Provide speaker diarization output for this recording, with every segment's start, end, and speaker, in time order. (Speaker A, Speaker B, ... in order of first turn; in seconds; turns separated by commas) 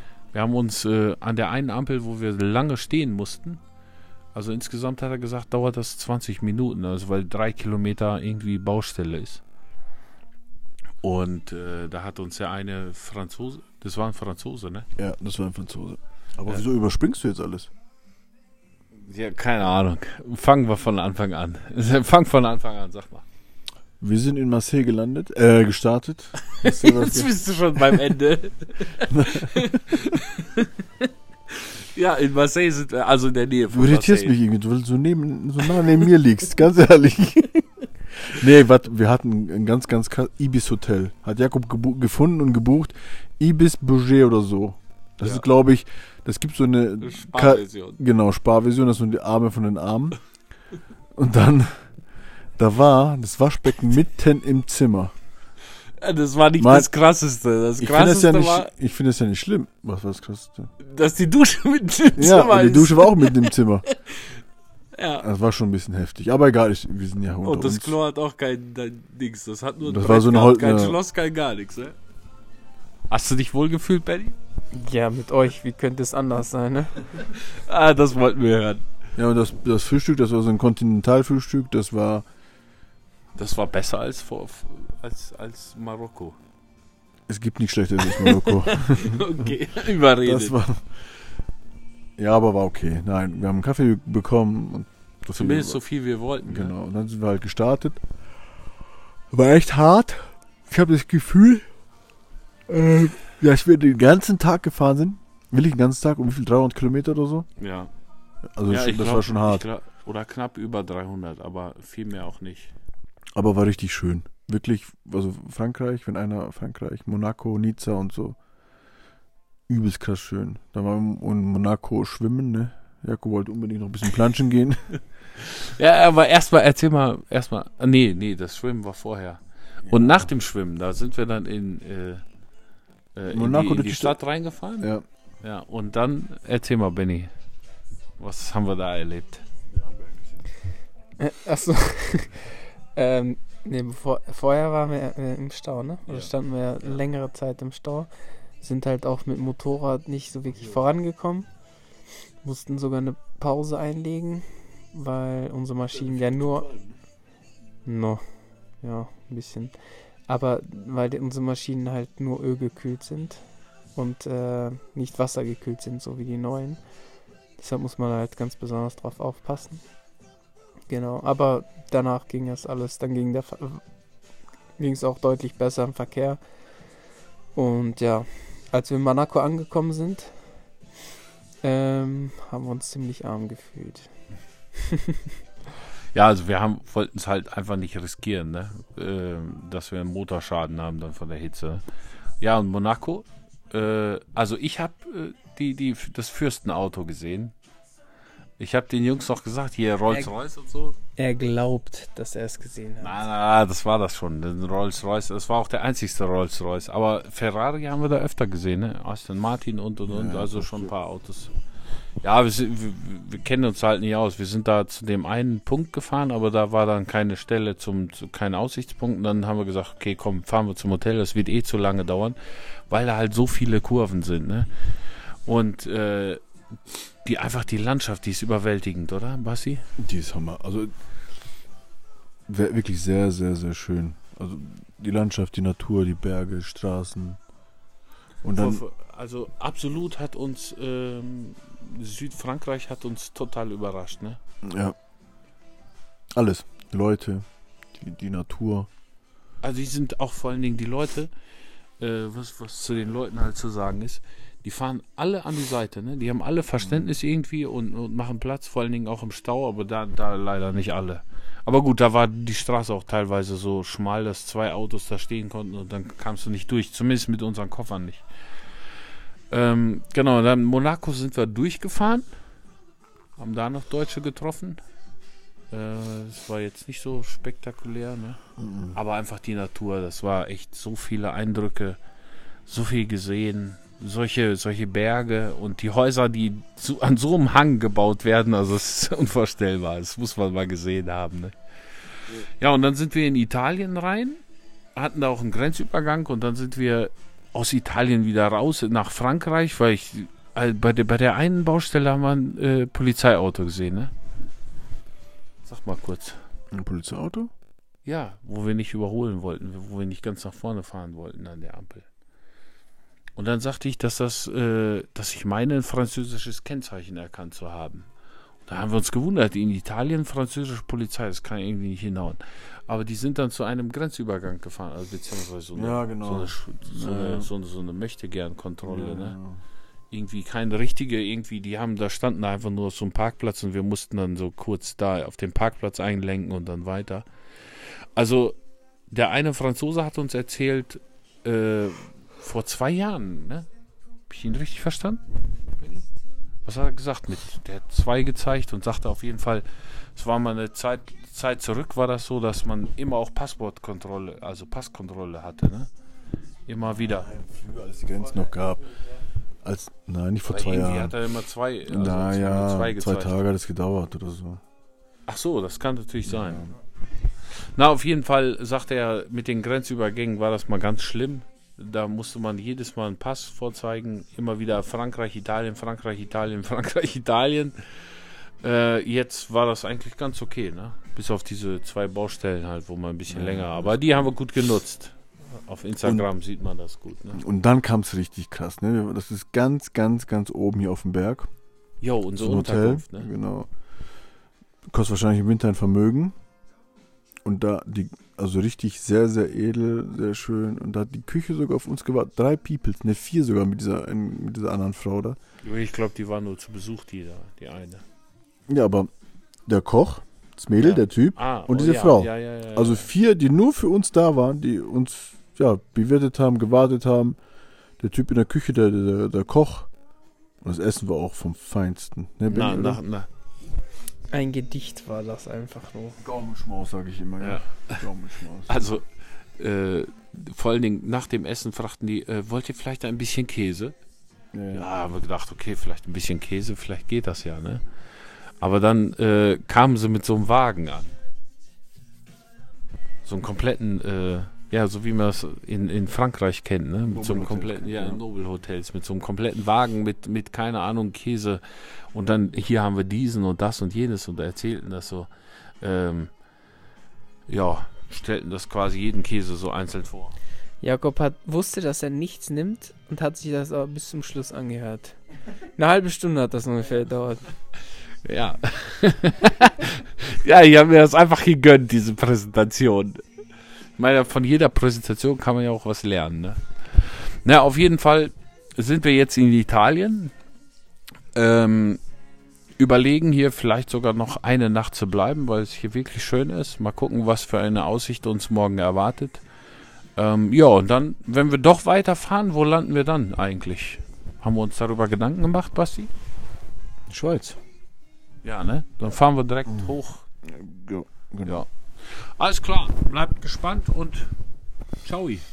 Speaker A: 0.3-3.6, Speaker A: 4.3-9.4, Speaker A: 11.0-14.9, Speaker B: 15.0-17.7, Speaker A: 18.9-23.2, Speaker B: 24.0-27.3, Speaker A: 26.4-34.3, Speaker B: 29.1-29.5, Speaker B: 33.7-37.6, Speaker B: 38.2-50.2, Speaker A: 45.2-45.5, Speaker A: 47.0-48.0, Speaker B: 51.1-51.9, Speaker B: 52.6-55.1, Speaker A: 56.0-58.7, Speaker B: 56.6-56.9, Speaker B: 57.8-60.7, Speaker A: 60.8-64.3, Speaker B: 62.1-63.8, Speaker A: 64.9-65.2, Speaker B: 65.2-68.0, Speaker A: 67.4-71.9, Speaker B: 69.8-71.0, Speaker A: 73.1-74.3, Speaker C: 74.7-77.0, Speaker A: 77.1-78.8, Speaker B: 79.2-82.2, Speaker A: 83.3-86.3, Speaker B: 87.3-89.2, Speaker A: 88.0-90.6, Speaker B: 90.2-90.9, Speaker B: 92.2-95.8, Speaker A: 95.3-96.7, Speaker B: 96.5-98.0, Speaker B: 99.3-101.6, Speaker B: 102.7-107.5, Speaker A: 107.6-107.9, Speaker B: 108.5-109.6, Speaker A: 108.7-112.7, Speaker B: 113.3-118.4, Speaker B: 119.7-124.9, Speaker A: 125.6-132.2, Speaker B: 129.9-130.3, Speaker A: 133.1-137.3, Speaker B: 133.3-134.2, Speaker A: 138.2-139.4, Speaker C: 141.2-148.1, Speaker A: 146.1-147.0, Speaker C: 148.6-151.5, Speaker C: 152.4-156.7, Speaker C: 157.8-158.2, Speaker C: 158.8-159.7, Speaker C: 160.3-166.8, Speaker C: 167.6-169.8, Speaker C: 170.9-173.8, Speaker C: 174.8-176.4, Speaker C: 177.5-180.4, Speaker C: 181.6-184.1, Speaker C: 184.8-185.1, Speaker A: 186.1-191.8, Speaker A: 192.4-197.5, Speaker A: 198.6-200.9, Speaker C: 201.2-203.2, Speaker A: 203.0-211.5, Speaker B: 210.1-210.9, Speaker A: 212.2-226.4, Speaker A: 227.2-229.8, Speaker B: 230.0-230.9, Speaker B: 232.5-237.4, Speaker B: 238.4-238.8, Speaker A: 238.5-244.4, Speaker B: 244.6-244.9, Speaker B: 246.3-247.4, Speaker B: 248.0-248.9, Speaker A: 249.6-251.3, Speaker A: 252.0-268.2, Speaker B: 256.8-257.1, Speaker A: 269.5-272.2, Speaker A: 273.4-274.8, Speaker A: 275.7-278.4, Speaker B: 278.6-279.0, Speaker A: 278.9-282.0, Speaker A: 282.6-291.5, Speaker A: 292.2-294.4, Speaker A: 294.9-304.1, Speaker A: 305.6-306.4, Speaker B: 306.7-307.5, Speaker A: 308.0-312.1, Speaker A: 313.4-318.1, Speaker A: 318.6-329.4, Speaker B: 325.7-327.5, Speaker B: 328.8-329.6, Speaker A: 330.1-338.6, Speaker A: 339.1-343.7, Speaker A: 344.3-345.2, Speaker A: 345.8-346.0, Speaker A: 346.6-355.9, Speaker A: 356.7-357.3, Speaker B: 356.9-359.1, Speaker B: 359.6-361.1, Speaker A: 360.5-363.4, Speaker B: 361.9-364.6, Speaker A: 365.3-366.6, Speaker B: 366.2-366.7, Speaker A: 367.5-387.4, Speaker B: 383.3-384.2, Speaker B: 387.3-391.5, Speaker A: 392.0-393.3, Speaker B: 392.4-393.7, Speaker B: 394.9-396.3, Speaker B: 397.4-405.4, Speaker A: 405.6-408.0, Speaker B: 408.7-409.1, Speaker B: 409.7-417.4, Speaker A: 410.8-413.1, Speaker B: 418.0-419.9, Speaker B: 420.6-423.0, Speaker A: 422.4-423.3, Speaker C: 424.3-426.2, Speaker B: 426.2-428.8, Speaker A: 427.4-428.1, Speaker A: 428.7-433.9, Speaker B: 434.5-434.9, Speaker A: 434.7-437.8, Speaker A: 438.6-441.1, Speaker A: 443.2-455.3, Speaker B: 447.1-448.2, Speaker A: 455.8-456.3, Speaker A: 457.5-460.3, Speaker C: 460.8-465.2, Speaker C: 465.8-467.5, Speaker A: 468.2-473.2, Speaker A: 474.0-480.3, Speaker A: 481.3-482.0, Speaker A: 482.8-489.4, Speaker A: 490.1-496.1, Speaker B: 497.1-497.6, Speaker A: 498.4-500.2, Speaker B: 500.4-501.6, Speaker A: 501.4-504.3, Speaker A: 505.0-505.4